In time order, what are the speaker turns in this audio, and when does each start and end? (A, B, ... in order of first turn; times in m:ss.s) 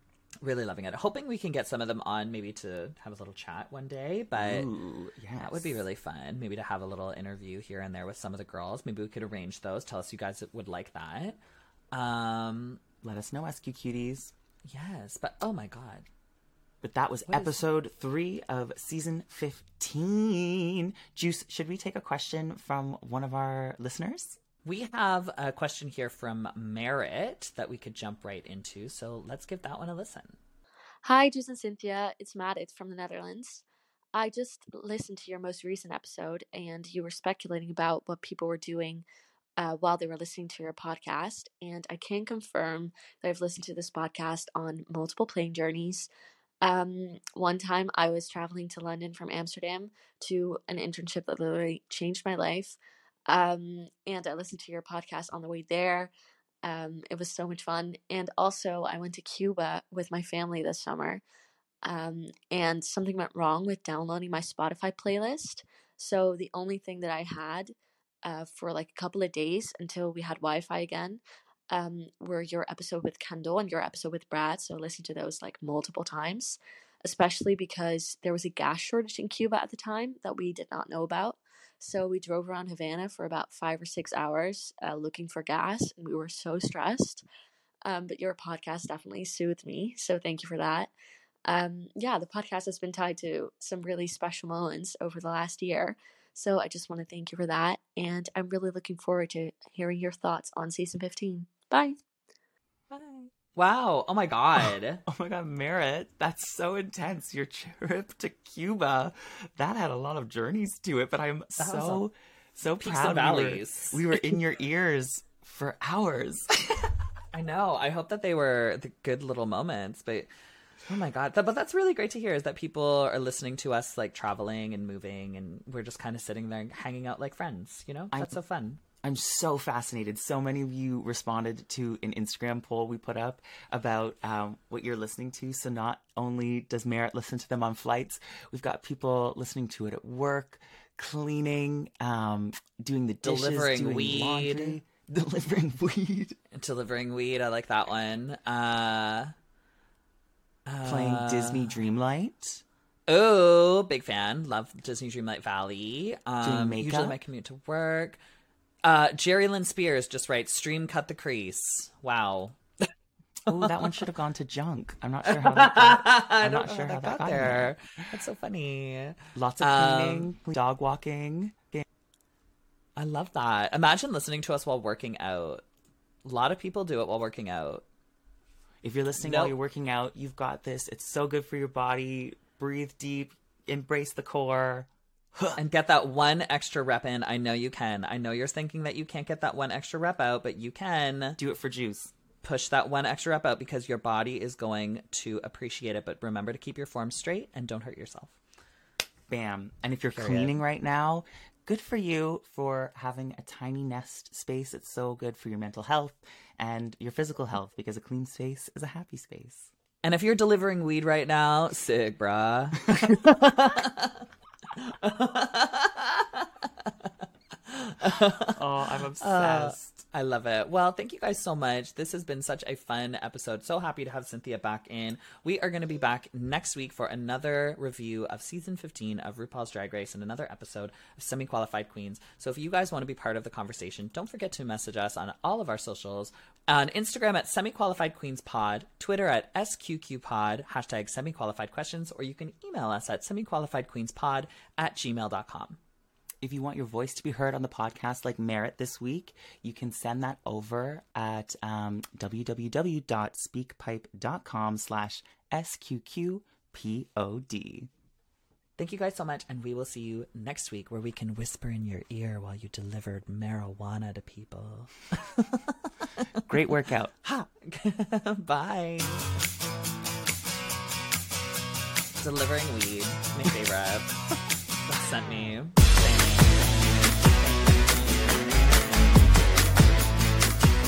0:00.4-0:04.7 A
0:04.3-0:05.8 B
0:05.4-0:11.4 A
0:11.9-0:12.8 A
0:13.0-0:14.3 B
0:14.6-0:16.1 A
0:16.8-0:24.4 B
0:17.3-0:17.6 A
0:24.6-0:30.4 A
0:31.0-0:39.0 C
0:39.6-0:46.1 C
0:46.6-0:56.1 C
0:56.6-1:01.2 C
1:01.8-1:27.2 C
1:27.8-1:30.9 C
1:31.5-1:42.0 C
1:42.9-1:45.0 A
1:45.1-1:56.9 B
1:51.6-1:52.0 A
1:52.8-1:54.4 A
1:57.3-2:00.3 A
2:00.9-2:08.8 A
2:08.1-2:08.4 B
2:09.0-2:26.4 B
2:23.2-2:24.8 A
2:26.5-2:29.3 A
2:30.7-2:31.8 A
2:30.8-2:32.6 B
2:33.1-2:38.2 A
2:36.4-2:37.2 B
2:38.8-2:42.6 A
2:43.5-2:47.8 B
2:45.2-2:50.3 A
2:49.4-2:51.8 B
2:53.0-2:55.6 A
2:56.2-2:57.8 A
2:58.8-3:05.6 B
2:59.2-2:59.6 A
3:05.6-3:11.4 A
3:11.4-3:12.1 B
3:12.4-3:18.4 A
3:19.3-3:29.7 B
3:20.1-3:20.6 A
3:30.0-3:37.1 A
3:37.7-3:38.6 A
3:38.5-3:40.0 B
3:39.2-4:05.8 A
4:06.4-4:17.9 B
4:18.8-4:26.3 A
4:26.4-4:27.1 B
4:27.2-4:29.2 A
4:32.2-4:39.5 A